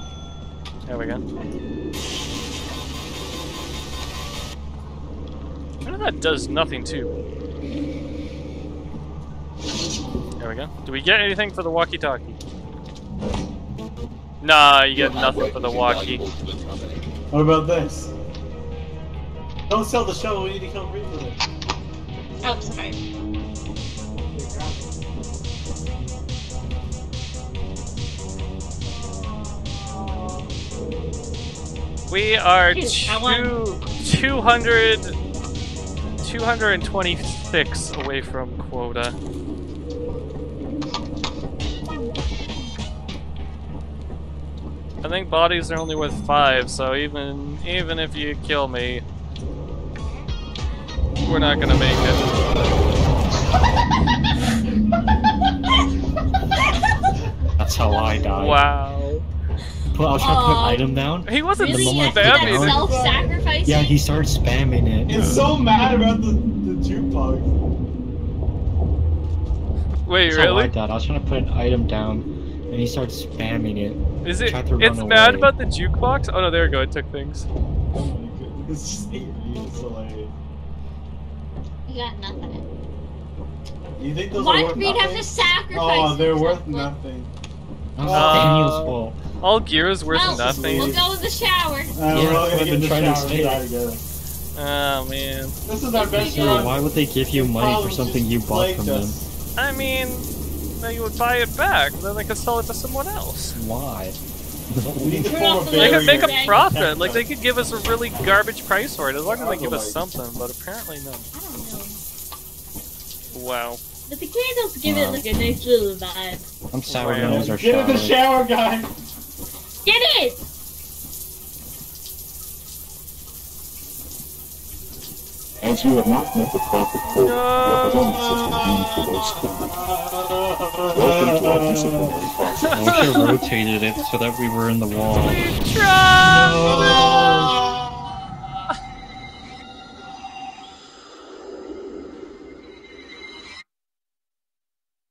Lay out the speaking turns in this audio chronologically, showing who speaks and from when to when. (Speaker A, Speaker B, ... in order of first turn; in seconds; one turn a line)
Speaker A: 0.8-1.2
Speaker A: 5.8-7.2
Speaker A: 10.4-12.4
Speaker A: 14.4-16.3
Speaker B: 14.9-17.1
Speaker C: 17.3-18.1
Speaker C: 19.7-21.4
Speaker D: 22.4-23.0
Speaker C: 24.2-25.0
Speaker A: 32.1-35.1
Speaker D: 32.7-33.5
Speaker A: 36.2-39.1
Speaker A: 45.0-49.0
Speaker A: 51.2-52.6
Speaker E: 57.6-58.6
Speaker A: 58.3-59.2
Speaker E: 59.9-63.0
Speaker D: 60.2-60.8
Speaker A: 61.2-62.9
Speaker D: 61.6-64.0
Speaker C: 62.8-63.3
Speaker E: 63.6-65.3
Speaker C: 65.1-67.5
Speaker A: 65.1-65.4
Speaker A: 70.0-70.7
Speaker E: 70.3-75.5
Speaker A: 74.2-77.5
Speaker C: 77.9-80.3
Speaker D: 81.8-82.6
Speaker C: 84.0-87.3
Speaker D: 84.3-86.9
Speaker E: 88.0-89.2
Speaker C: 88.0-88.8
Speaker A: 88.1-91.0
Speaker D: 90.1-92.0
Speaker C: 90.2-91.0
Speaker C: 91.9-94.0
Speaker E: 92.1-93.6
Speaker A: 94.5-95.5
Speaker C: 95.7-99.3
Speaker D: 95.9-96.7
Speaker E: 96.1-99.2
Speaker A: 99.6-100.3
Speaker A: 100.8-103.6
Speaker E: 103.5-104.2
Speaker E: 104.7-105.3
Speaker C: 105.0-107.2
Speaker D: 105.3-106.6
Speaker A: 105.7-111.3
Speaker C: 109.2-110.0
Speaker D: 111.3-112.0
Speaker A: 113.3-113.8
Speaker D: 114.1-116.4
Speaker E: 114.8-115.2
Speaker E: 116.7-118.2
Speaker A: 116.8-117.5
Speaker C: 117.2-118.9
Speaker D: 119.8-120.4
Speaker B: 125.6-129.7
Speaker A: 127.2-128.2
Speaker C: 127.9-132.3
Speaker B: 130.9-132.8
Speaker E: 131.2-132.2
Speaker A: 132.6-133.4
Speaker E: 132.7-135.6
Speaker A: 135.2-136.9
Speaker E: 136.2-137.6
Speaker C: 136.7-137.8